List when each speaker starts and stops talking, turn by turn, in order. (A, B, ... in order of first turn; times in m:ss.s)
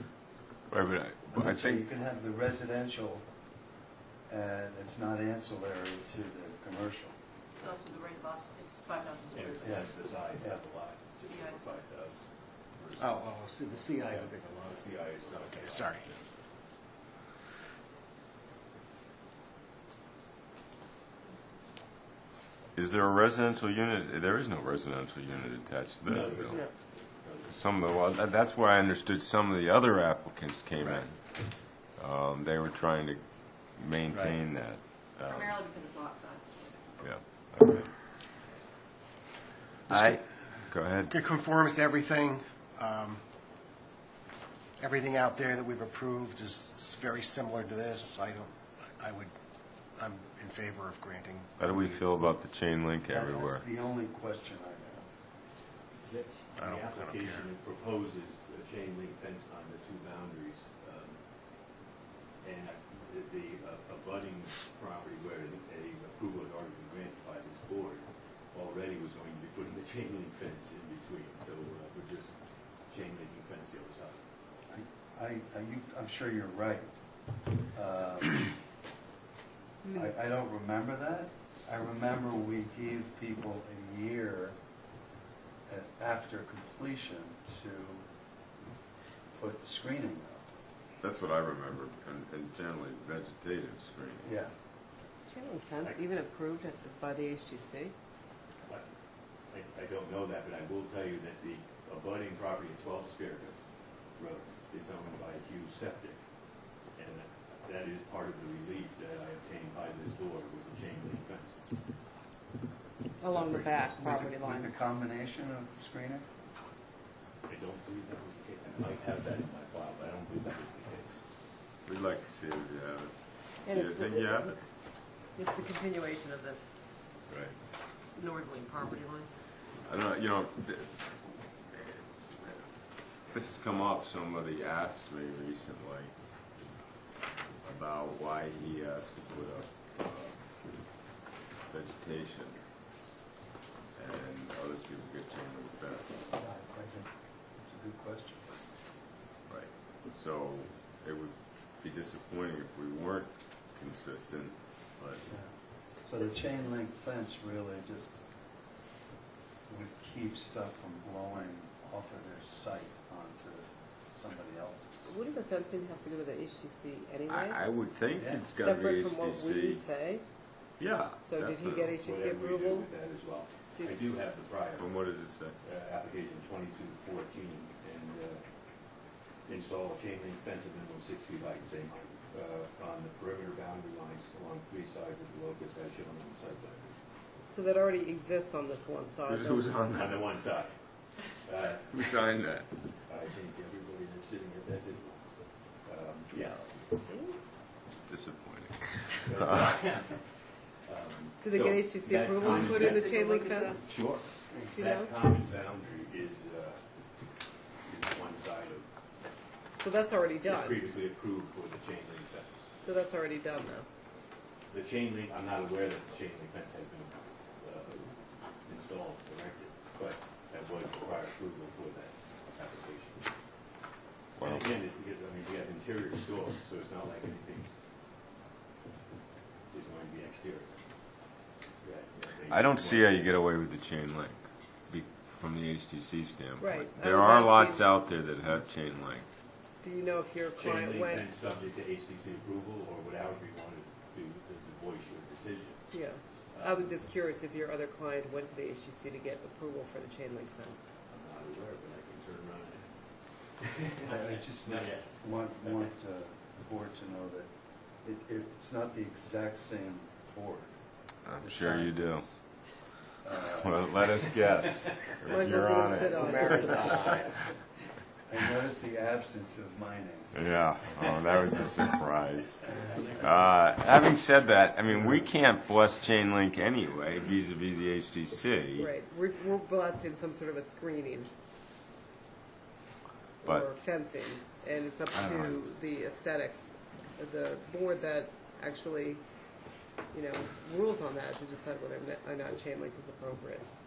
0:00.7-0:01.8 A
0:01.3-0:03.3 B
0:04.3-0:07.1 B
0:07.6-0:07.9 C
0:07.6-0:09.8 D
0:09.3-0:13.3 C
0:09.6-0:10.6 B
0:11.3-0:11.6 D
0:13.0-0:16.2 E
0:14.0-0:16.3 C
0:22.7-0:26.6 A
0:26.0-0:28.0 C
0:27.5-0:35.6 A
0:35.2-0:37.0 D
0:37.0-0:37.9 A
0:39.9-0:41.1 A
0:39.9-0:43.2 E
0:44.8-0:49.3 E
0:49.9-0:52.0 E
0:51.6-0:53.6 A
0:53.1-0:55.1 B
0:56.0-1:01.2 C
0:56.6-0:57.5 E
1:02.4-1:12.3 C
1:12.9-1:14.2 C
1:14.7-1:16.9 B
1:17.7-1:18.5 B
1:19.9-1:24.6 B
1:25.7-1:28.0 B
1:29.3-1:30.4 B
1:31.0-1:34.3 A
1:34.2-1:34.5 B
1:35.3-1:37.9 F
1:35.8-1:36.1 C
1:39.5-1:43.6 C
1:44.2-1:46.2 C
1:47.0-1:51.6 C
1:53.2-1:54.7 F
1:53.2-1:54.0 C
1:54.0-1:56.2 B
1:57.4-2:01.2 C
2:01.8-2:04.6 A
2:03.6-2:04.6 F
2:05.2-2:06.8 F
2:07.3-2:07.6 A
2:08.0-2:09.3 F
2:09.8-2:12.7 A
2:13.2-2:16.1 A
2:17.6-2:20.9 A
2:21.6-2:22.6 A
2:23.9-2:26.3 A
2:26.3-2:28.6 B
2:29.5-2:35.2 A
2:35.3-2:38.2 B
2:39.7-2:45.2 B
2:45.0-2:47.7 F
2:47.3-2:49.9 A
2:48.1-2:48.5 B
2:48.5-2:50.2 F
2:50.8-2:51.9 A
2:51.2-2:53.0 F
2:52.0-2:55.0 C
2:54.8-2:55.5 A
2:55.6-2:58.4 C
2:59.4-3:07.0 C
3:07.5-3:09.7 F
3:09.3-3:10.4 A
3:09.9-3:10.7 C
3:11.3-3:12.0 C
3:11.9-3:12.7 A
3:13.0-3:15.2 C
3:15.8-3:16.9 C
3:16.3-3:16.6 A
3:17.0-3:17.4 F
3:17.9-3:19.9 A
3:19.2-3:20.3 C
3:20.8-3:26.8 C
3:21.4-3:23.8 F
3:22.4-3:23.8 D
3:24.7-3:25.1 F
3:27.8-3:28.9 C
3:29.8-3:30.8 F
3:30.4-3:32.6 C
3:32.8-3:33.8 F
3:34.7-3:43.2 C
3:44.4-3:44.7 A
3:44.4-3:47.7 C
3:49.7-3:50.8 C
3:51.8-3:53.4 C
3:52.5-3:59.2 A
3:56.6-3:57.9 F
3:59.8-4:01.3 F
4:00.6-4:05.8 C
4:05.9-4:10.8 F
4:06.5-4:06.9 C
4:11.1-4:13.1 C
4:13.6-4:15.9 C
4:14.0-4:20.8 B
4:21.2-4:22.2 A
4:21.4-4:22.4 B
4:23.2-4:24.2 B
4:23.5-4:27.0 A
4:25.2-4:27.0 F
4:26.4-4:27.2 C
4:28.3-4:30.3 B
4:30.3-4:38.9 A
4:32.6-4:33.7 C
4:34.9-4:35.2 B
4:38.8-4:41.3 F
4:43.4-4:49.2 F
4:45.1-4:45.6 A
4:50.1-4:53.7 F